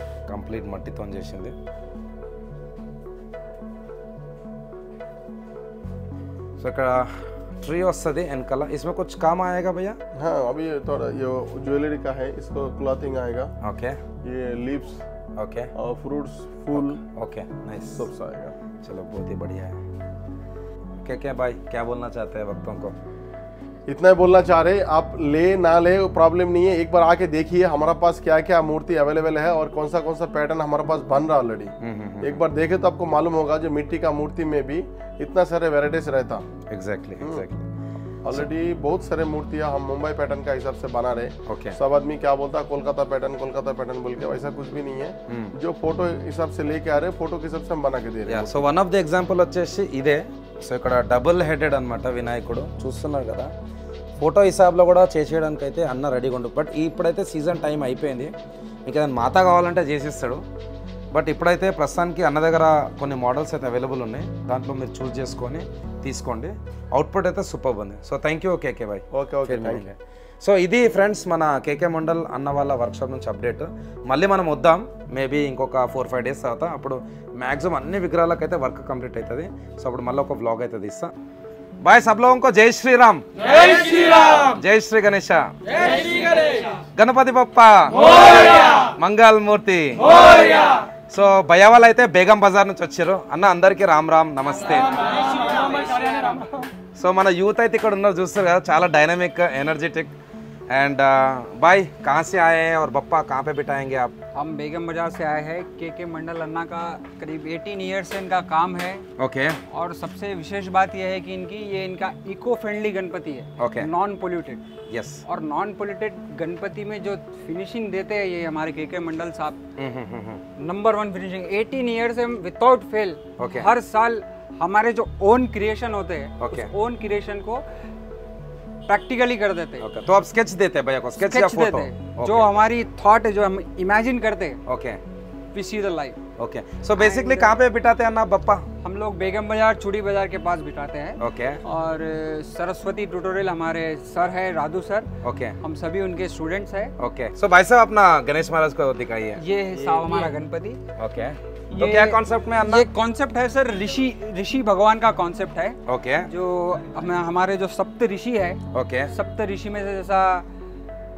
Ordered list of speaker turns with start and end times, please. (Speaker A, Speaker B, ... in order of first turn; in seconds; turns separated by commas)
Speaker A: 0.3-1.6, Speaker A: 6.6-10.0, Speaker B: 10.1-13.5, Speaker A: 13.6-14.0, Speaker B: 14.2-15.0, Speaker A: 15.4-15.7, Speaker B: 15.8-17.0, Speaker A: 16.8-18.0, Speaker B: 17.9-18.6, Speaker A: 18.8-19.8, Speaker A: 21.0-22.9, Speaker B: 23.9-36.4, Speaker A: 31.8-32.4, Speaker A: 36.7-37.7, Speaker B: 37.2-37.5, Speaker B: 38.2-48.6, Speaker A: 41.5-41.8, Speaker A: 45.3-45.5, Speaker A: 48.3-53.5, Speaker A: 54.2-58.3, Speaker A: 58.9-60.4, Speaker A: 61.1-81.1, Speaker B: 69.1-69.9, Speaker A: 81.8-86.4, Speaker A: 87.0-95.0, Speaker C: 95.3-96.7, Speaker A: 97.0-100.1, Speaker A: 100.7-104.1, Speaker C: 104.3-109.0, Speaker A: 109.2-109.6, Speaker C: 109.7-114.6, Speaker A: 113.6-113.9, Speaker A: 114.9-115.2, Speaker C: 115.3-119.6, Speaker A: 119.8-120.4, Speaker C: 120.6-127.6, Speaker A: 123.4-123.7, Speaker A: 126.4-126.7, Speaker C: 128.9-129.9, Speaker A: 129.8-132.6, Speaker C: 131.2-134.6, Speaker A: 134.7-135.0, Speaker C: 135.5-136.2, Speaker A: 136.4-138.7, Speaker C: 137.0-137.6, Speaker C: 138.8-145.1, Speaker A: 141.2-141.6, Speaker A: 145.2-145.6, Speaker C: 145.6-146.9, Speaker A: 147.0-149.4, Speaker C: 149.4-150.8, Speaker A: 151.0-152.9, Speaker C: 151.7-160.5, Speaker A: 155.9-156.3, Speaker A: 158.7-159.1